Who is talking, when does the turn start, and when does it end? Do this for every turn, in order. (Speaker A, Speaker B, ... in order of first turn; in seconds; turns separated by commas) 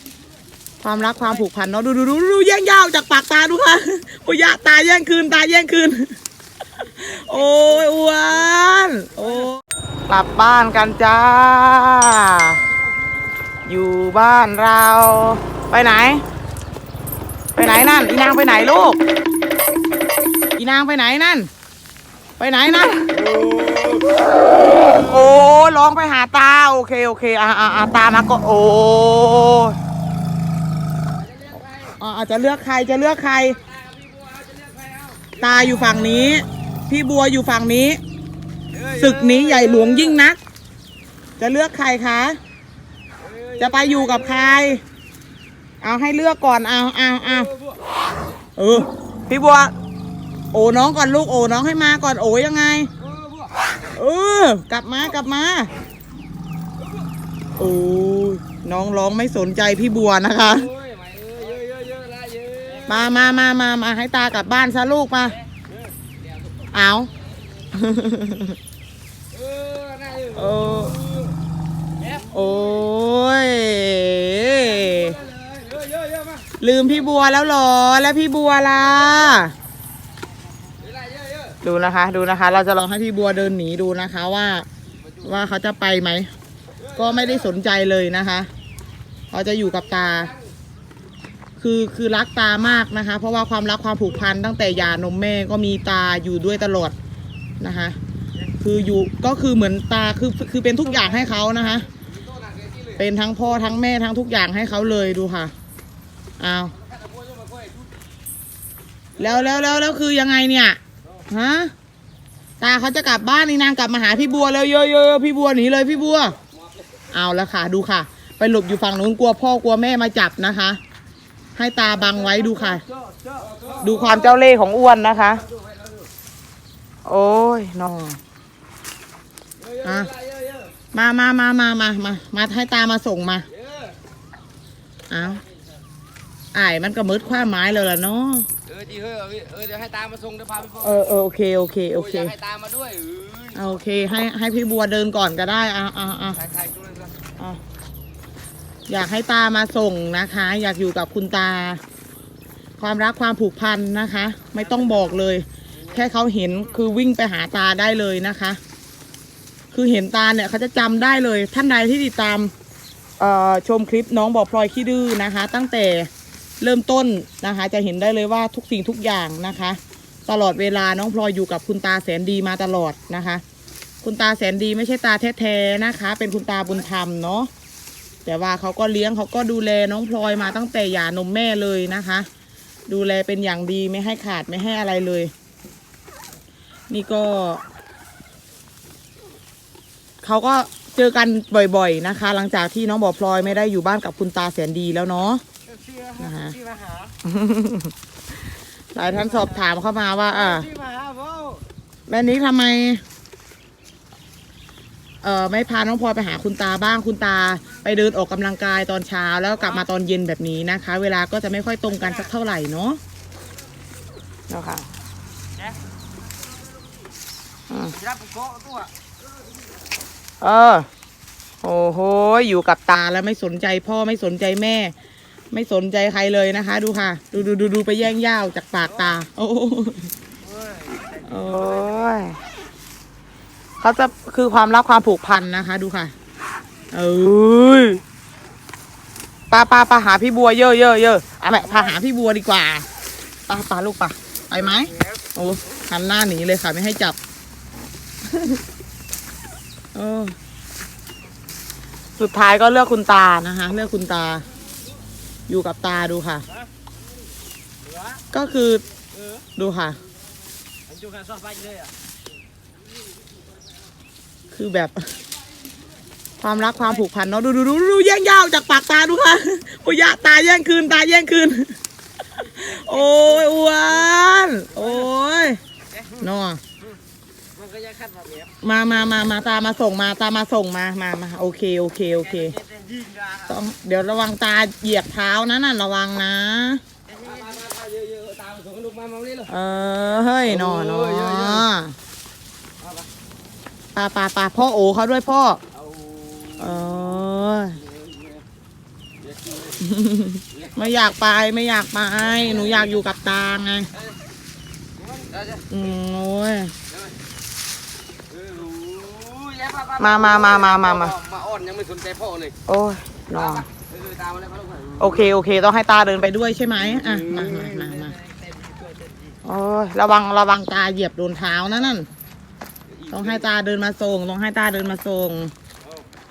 Speaker A: 0.8-6.2, Speaker A: 6.8-12.6, Speaker A: 13.7-16.2, Speaker A: 17.6-19.0, Speaker A: 20.6-21.5, Speaker A: 22.4-23.2, Speaker B: 23.3-24.2, Speaker A: 24.6-29.8, Speaker B: 31.1-31.9, Speaker A: 32.0-33.6, Speaker B: 33.6-35.4, Speaker A: 35.4-38.0, Speaker B: 38.7-40.2, Speaker A: 38.8-40.4, Speaker A: 41.4-42.4, Speaker B: 43.2-44.6, Speaker A: 43.6-44.8, Speaker A: 45.8-47.5, Speaker A: 48.6-49.7, Speaker A: 50.5-52.9, Speaker B: 53.0-53.5, Speaker A: 53.9-55.7, Speaker A: 57.6-60.7, Speaker B: 60.5-63.2, Speaker A: 62.9-65.4, Speaker A: 66.7-67.1, Speaker A: 67.7-68.6, Speaker B: 69.3-71.3, Speaker A: 70.3-71.0, Speaker A: 72.3-75.2, Speaker B: 74.7-76.5, Speaker A: 76.6-79.5, Speaker B: 80.8-81.6, Speaker A: 81.6-84.7, Speaker A: 85.2-86.3, Speaker A: 86.9-88.5, Speaker A: 89.3-90.3, Speaker B: 90.0-90.4, Speaker A: 91.6-97.0, Speaker A: 97.6-98.0, Speaker A: 98.6-101.9, Speaker B: 102.2-103.0, Speaker A: 103.0-105.5, Speaker A: 106.4-106.8, Speaker B: 106.8-107.9, Speaker A: 109.2-111.7, Speaker A: 112.6-116.4, Speaker A: 117.1-120.8, Speaker A: 121.6-122.8, Speaker B: 122.9-123.8, Speaker A: 123.8-125.4, Speaker B: 125.5-125.9, Speaker A: 127.0-128.2, Speaker B: 129.6-130.7, Speaker A: 129.8-130.1, Speaker A: 130.9-133.5, Speaker B: 133.6-133.9, Speaker A: 135.1-135.4, Speaker A: 136.5-138.5, Speaker B: 138.7-141.0, Speaker A: 140.8-142.4, Speaker B: 142.0-143.6, Speaker A: 143.6-146.4, Speaker B: 146.4-147.1, Speaker A: 148.9-151.8, Speaker A: 152.8-158.6, Speaker A: 159.7-162.5, Speaker A: 163.2-166.1, Speaker A: 166.6-173.4, Speaker A: 174.0-177.5, Speaker A: 178.2-182.3, Speaker A: 182.9-185.3, Speaker A: 186.9-187.6, Speaker A: 190.2-195.4, Speaker B: 195.8-197.1, Speaker A: 196.2-196.6, Speaker A: 197.2-197.9, Speaker A: 198.9-200.7, Speaker B: 200.6-201.6, Speaker A: 202.1-203.0, Speaker A: 205.2-213.0, Speaker A: 214.5-214.8, Speaker A: 217.7-218.0, Speaker B: 218.0-218.9, Speaker A: 220.4-220.9, Speaker A: 221.6-224.9, Speaker A: 225.5-230.1, Speaker B: 230.6-231.2, Speaker A: 231.2-232.4, Speaker A: 233.8-236.1, Speaker A: 236.9-238.0, Speaker A: 239.5-242.9, Speaker A: 243.5-247.2, Speaker A: 248.2-248.6, Speaker A: 249.9-250.4, Speaker A: 252.2-254.4, Speaker A: 255.5-256.4, Speaker A: 258.3-258.9, Speaker A: 259.6-260.0, Speaker B: 260.9-261.9, Speaker A: 264.5-265.1, Speaker A: 266.4-271.8, Speaker A: 272.3-275.6, Speaker A: 276.1-276.6, Speaker B: 277.6-278.5, Speaker A: 278.6-282.6, Speaker B: 282.6-283.3, Speaker A: 283.4-286.8, Speaker B: 287.1-289.5, Speaker A: 289.5-292.0, Speaker B: 290.5-291.7, Speaker A: 293.9-295.6, Speaker B: 295.8-297.0, Speaker A: 296.6-297.8, Speaker B: 297.8-298.4, Speaker B: 299.2-299.8, Speaker A: 299.8-303.9, Speaker B: 305.1-305.7, Speaker A: 305.7-306.7, Speaker B: 308.3-312.6, Speaker A: 310.0-311.1, Speaker A: 312.7-313.7, Speaker B: 313.4-315.1, Speaker A: 315.0-318.2, Speaker B: 317.4-317.8, Speaker A: 319.4-322.1, Speaker A: 323.1-325.5